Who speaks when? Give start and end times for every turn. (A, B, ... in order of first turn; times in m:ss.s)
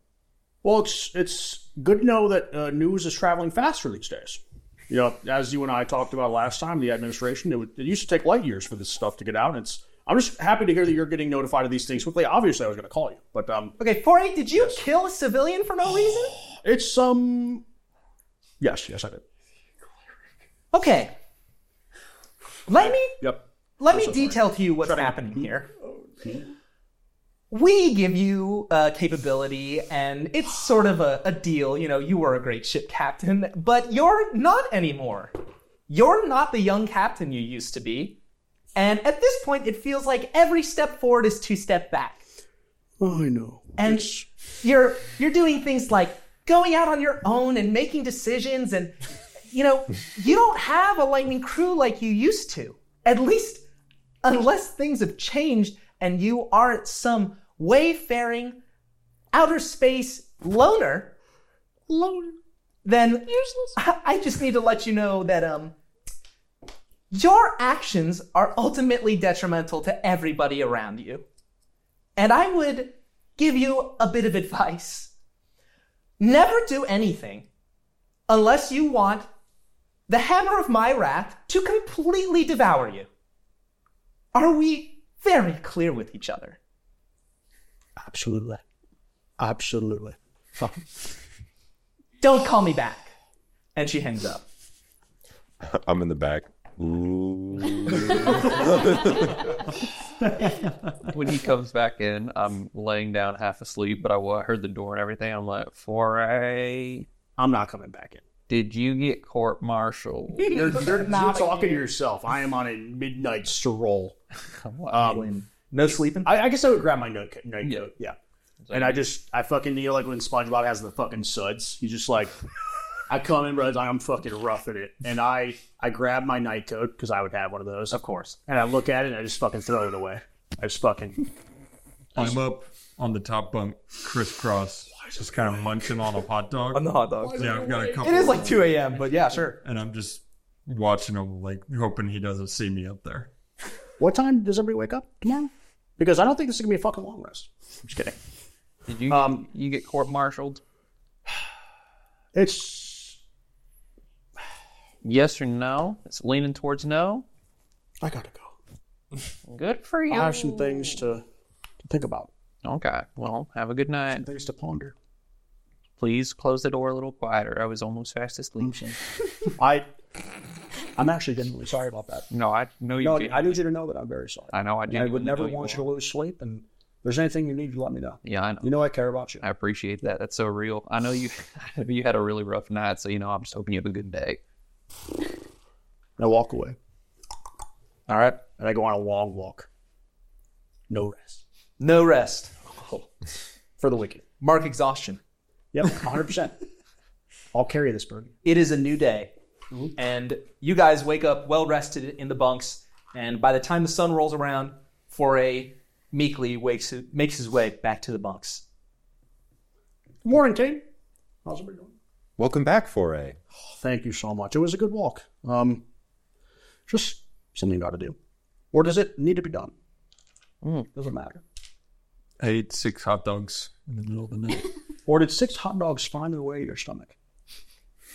0:00.6-0:13.8 A
0:13.8-0:16.4 B
0:16.6-0:17.6 A
0:18.6-0:19.2 A
0:20.7-0:21.1 B
0:22.7-0:23.2 B
0:23.1-0:25.5 A
0:23.8-0:25.7 B
0:27.5-0:35.3 B
0:35.9-0:38.2 B
0:38.8-0:42.2 B
0:43.0-0:44.3 A
0:43.8-0:44.1 B
0:44.6-0:49.0 B
0:49.5-0:53.6 B
0:54.2-0:58.6 B
0:59.3-1:01.2 B
1:01.9-1:02.2 A
1:02.8-1:05.7 B
1:07.1-1:11.2 B
1:12.2-1:15.1 B
1:16.2-1:17.5 B
1:18.3-1:19.3 B
1:20.1-1:23.1 B
1:24.3-1:26.6 B
1:28.0-1:28.6 A
1:29.4-1:30.8 A
1:32.2-1:33.1 B
1:33.8-1:34.4 B
1:35.6-1:39.5 C
1:40.2-1:41.1 D
1:41.1-1:47.1 E
1:47.4-1:48.2 A
1:48.5-1:50.7 E
1:50.5-1:54.2 A
1:50.7-1:51.9 B
1:54.6-1:55.2 E
1:54.9-1:55.3 A
1:54.9-1:56.3 B
1:56.2-1:58.2 A
1:58.7-1:59.1 E
1:58.7-2:02.4 A
2:03.1-2:11.3 A
2:07.9-2:08.4 B
2:12.2-2:18.8 D
2:15.0-2:15.8 A
2:16.7-2:19.6 B
2:17.2-2:18.5 A
2:19.6-2:23.3 D
2:24.0-2:28.2 A
2:28.9-2:30.6 E
2:29.1-2:29.5 A
2:32.3-2:33.2 A
2:35.0-2:37.3 E
2:38.0-2:38.6 A
2:39.5-2:41.1 E
2:40.1-2:41.2 A
2:41.8-2:42.3 A
2:42.6-2:44.3 E
2:44.1-2:45.0 A
2:46.0-2:48.8 E
2:48.6-2:49.9 A
2:51.0-2:52.3 A
2:52.3-2:53.6 E
2:53.0-2:59.4 A
2:54.5-2:55.9 E
2:58.2-2:58.8 E
2:59.4-3:04.4 E
3:06.2-3:06.8 A
3:08.1-3:08.4 B
3:08.6-3:09.7 A
3:10.9-3:11.4 A
3:11.8-3:12.6 B
3:13.8-3:14.2 A
3:14.4-3:15.2 B
3:15.7-3:16.6 A
3:17.5-3:18.3 A
3:18.4-3:19.3 B
3:20.0-3:28.6 B
3:30.2-3:30.8 A
3:31.4-3:32.0 A
3:32.4-3:33.4 C
3:33.7-3:35.8 A
3:36.9-3:38.2 A
3:38.7-3:39.7 A
3:40.6-3:40.9 E
3:40.9-3:41.4 A
3:42.4-3:44.7 D
3:45.1-3:47.2 A